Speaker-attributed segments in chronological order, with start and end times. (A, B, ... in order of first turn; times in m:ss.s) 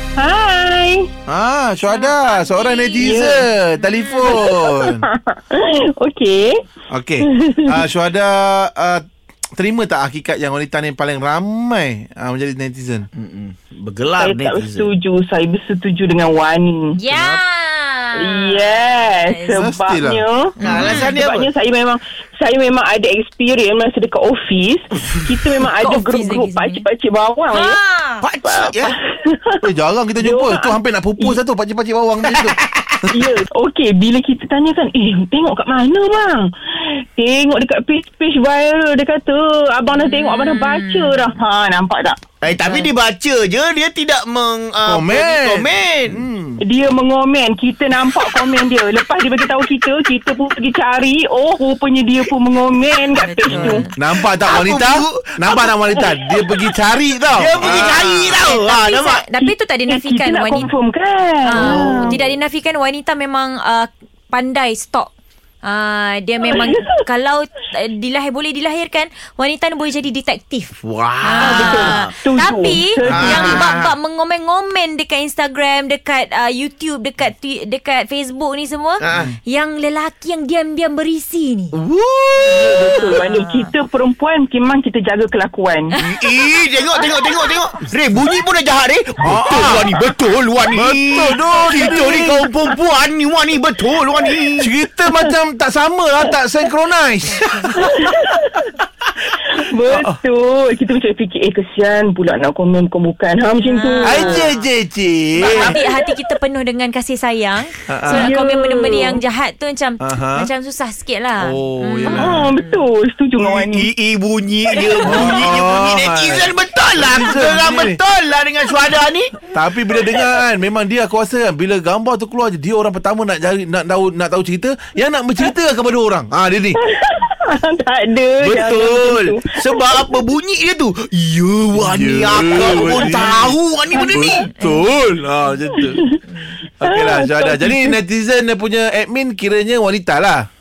0:00.2-0:01.1 A
0:01.3-0:05.1 B
0:01.8-0:03.1 C
0:03.0-0:03.4 A
0:03.8-0:04.4 C
0:04.3-0:06.6 A
0:06.9-0:09.0 B
0:07.2-0:07.7 A
0:09.6-0:13.1 B
0:13.1-0:14.9 D
0:14.2-0:17.0 A
0:17.0-0:19.6 C
0:17.1-0:17.4 B
0:18.2-0:27.8 A
0:19.5-0:20.2 B
0:20.6-0:21.1 C
0:20.6-0:21.5 D
0:25.8-0:26.8 C
0:27.5-0:28.3 C
0:28.2-0:29.0 D
0:28.4-0:29.6 A
0:29.6-0:33.2 B
0:30.2-0:31.4 A
0:33.1-0:42.2 A
0:40.0-0:41.2 C
0:42.4-0:46.2 D
0:44.8-0:46.6 B
0:46.6-0:53.9 A
0:53.1-0:53.9 C
0:53.5-0:58.4 B
0:54.2-0:55.7 D
0:57.3-0:59.4 D
0:58.4-1:00.7 C
0:59.9-1:02.2 A
1:01.4-1:05.1 C
1:01.6-1:02.2 D
1:05.6-1:21.7 C
1:06.4-1:07.0 A
1:10.8-1:12.1 D
1:11.4-1:13.3 A
1:13.0-1:13.6 B
1:13.1-1:13.9 D
1:19.0-1:19.3 D
1:21.8-1:23.2 D
1:22.5-1:26.0 A
1:22.5-1:23.7 C
1:26.0-1:34.7 D
1:29.2-1:29.9 B
1:30.7-1:32.5 B
1:34.6-1:38.3 B
1:37.4-1:37.7 C
1:37.8-1:38.6 A
1:39.6-1:44.4 A
1:39.9-1:40.2 B
1:43.6-1:44.6 C
1:44.0-1:45.8 B
1:45.4-1:52.8 C
1:47.9-1:48.3 B
1:48.1-1:49.2 A
1:50.0-1:50.5 B
1:51.4-1:52.5 B
1:52.1-1:53.9 A
1:53.4-1:59.4 D
1:54.8-1:55.3 A
1:55.0-1:58.0 B
1:59.5-2:06.8 B
2:06.8-2:09.5 A
2:08.4-2:14.5 D
2:11.8-2:16.0 B
2:14.6-2:14.9 C
2:16.2-2:16.6 C
2:16.8-2:20.5 B
2:16.8-2:17.9 A